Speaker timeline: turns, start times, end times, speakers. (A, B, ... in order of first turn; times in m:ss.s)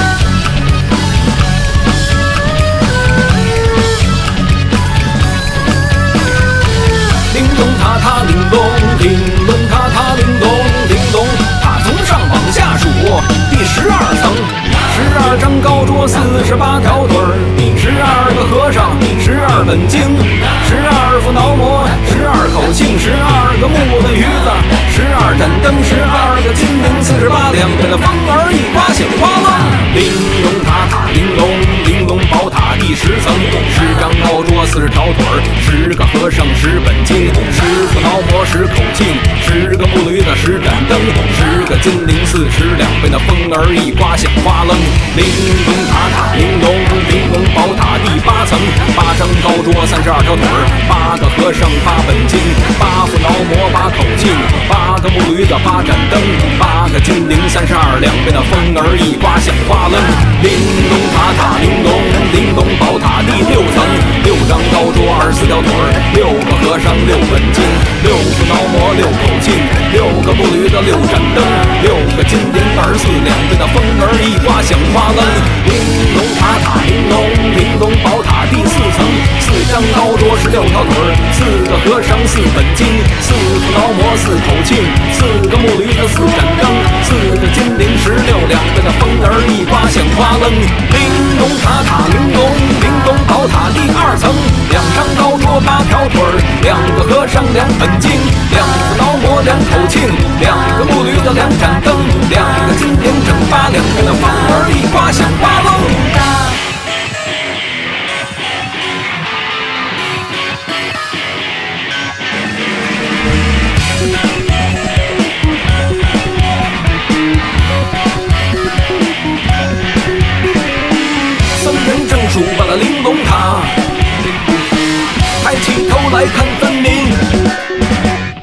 0:07.3-1:46.5 A
2:01.5-2:03.9 A
2:05.4-2:07.3 A